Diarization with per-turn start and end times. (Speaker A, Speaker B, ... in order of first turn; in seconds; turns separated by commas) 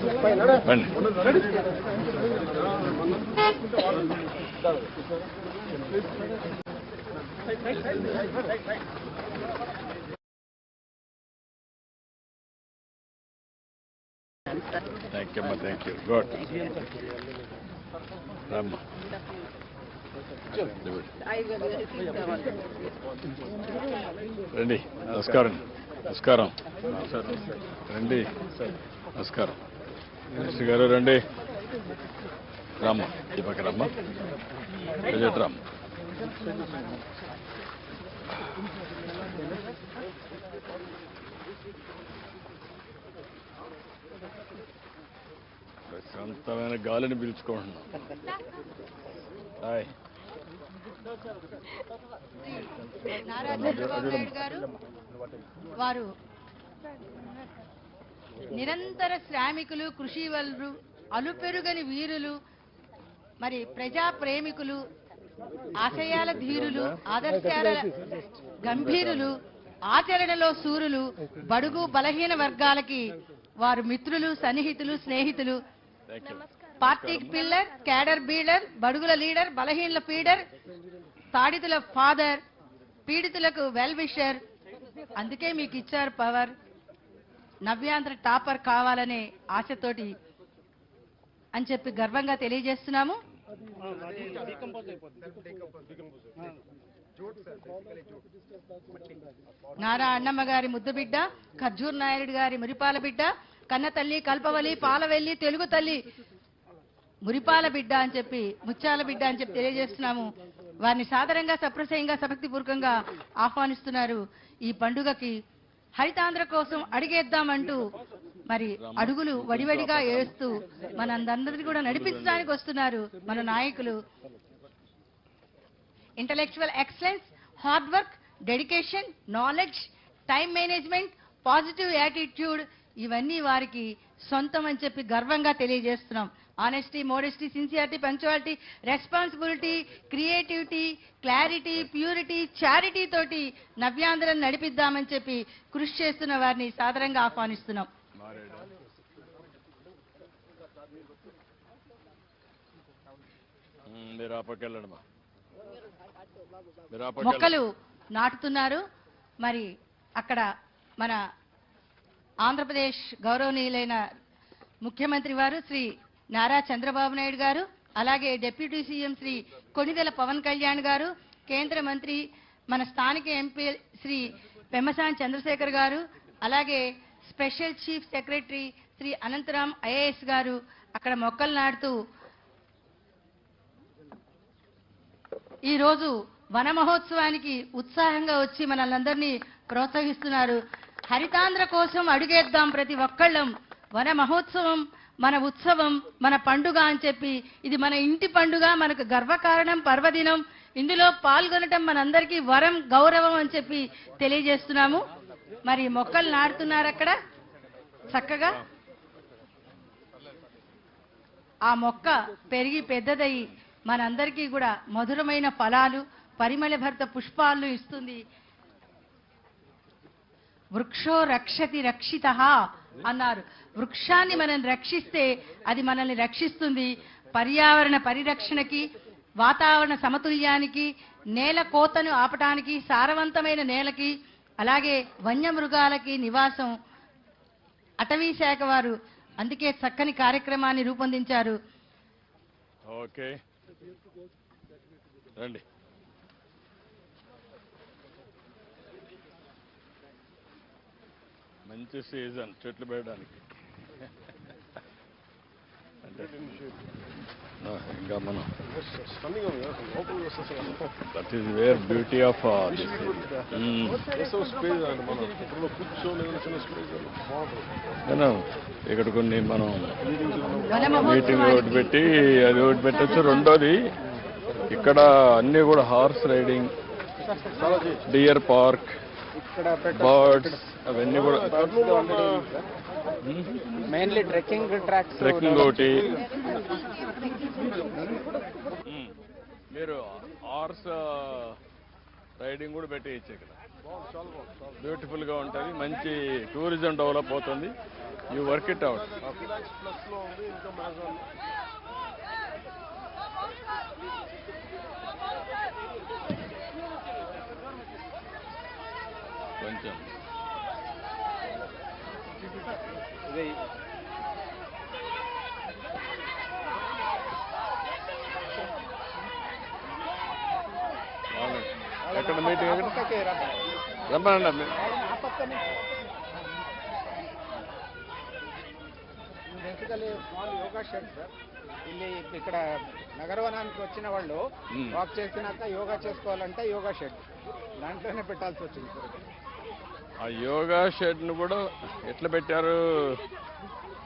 Speaker A: 0.6-0.9, Speaker A: 15.1-16.4, Speaker A: 18.5-18.8, Speaker A: 20.6-21.1, Speaker A: 24.5-29.6, Speaker A: 30.3-31.2, Speaker A: 32.8-33.9, Speaker A: 35.1-35.6, Speaker A: 45.9-47.9, Speaker A: 49.6-49.9, Speaker B: 52.4-54.6, Speaker A: 53.5-54.3, Speaker B: 55.8-56.0, Speaker B: 58.5-62.3, Speaker B: 63.4-64.8, Speaker B: 65.8-67.9, Speaker A: 66.4-66.9, Speaker B: 68.6-69.4, Speaker B: 69.9-73.1, Speaker B: 73.6-75.6, Speaker A: 76.1-77.3, Speaker B: 76.8-80.4, Speaker B: 81.3-82.4, Speaker B: 83.1-84.4, Speaker B: 85.2-86.5, Speaker B: 87.6-90.1, Speaker B: 91.5-93.2, Speaker C: 94.0-94.8, Speaker C: 95.3-95.5, Speaker B: 99.8-106.0, Speaker B: 107.2-110.3, Speaker B: 110.8-115.3, Speaker B: 116.0-117.8, Speaker B: 118.5-124.0, Speaker A: 118.8-120.3, Speaker A: 121.9-122.5, Speaker B: 126.2-147.9, Speaker A: 148.1-148.7, Speaker A: 153.9-155.0, Speaker A: 156.9-157.6, Speaker B: 157.2-158.8, Speaker B: 160.2-160.4, Speaker B: 162.4-164.0, Speaker B: 164.8-181.9, Speaker B: 185.7-205.0, Speaker B: 205.7-207.1, Speaker B: 208.1-208.6, Speaker B: 211.7-218.2, Speaker B: 220.7-228.8, Speaker B: 229.4-236.7, Speaker B: 238.0-241.6, Speaker A: 242.8-243.4, Speaker A: 245.3-245.6, Speaker A: 251.7-253.5, Speaker A: 256.0-256.7, Speaker A: 257.6-258.5, Speaker A: 260.7-264.1, Speaker A: 268.1-270.0, Speaker B: 270.7-272.0, Speaker A: 271.0-273.8, Speaker B: 272.6-273.5, Speaker A: 274.7-276.7, Speaker A: 278.0-278.9, Speaker C: 279.4-280.6, Speaker A: 279.9-281.7, Speaker C: 281.6-282.6, Speaker A: 283.2-283.6, Speaker C: 283.9-285.5, Speaker A: 285.1-286.2, Speaker A: 288.9-289.1, Speaker A: 289.7-291.6, Speaker A: 292.4-293.6, Speaker A: 294.8-297.7, Speaker A: 298.3-299.4, Speaker A: 309.6-310.1, Speaker C: 313.3-313.5, Speaker A: 321.3-323.0, Speaker C: 322.1-323.6, Speaker A: 324.1-324.8, Speaker C: 324.8-325.8, Speaker C: 329.6-331.3, Speaker C: 331.8-337.2, Speaker A: 334.7-335.0, Speaker C: 337.8-339.2, Speaker A: 340.2-343.2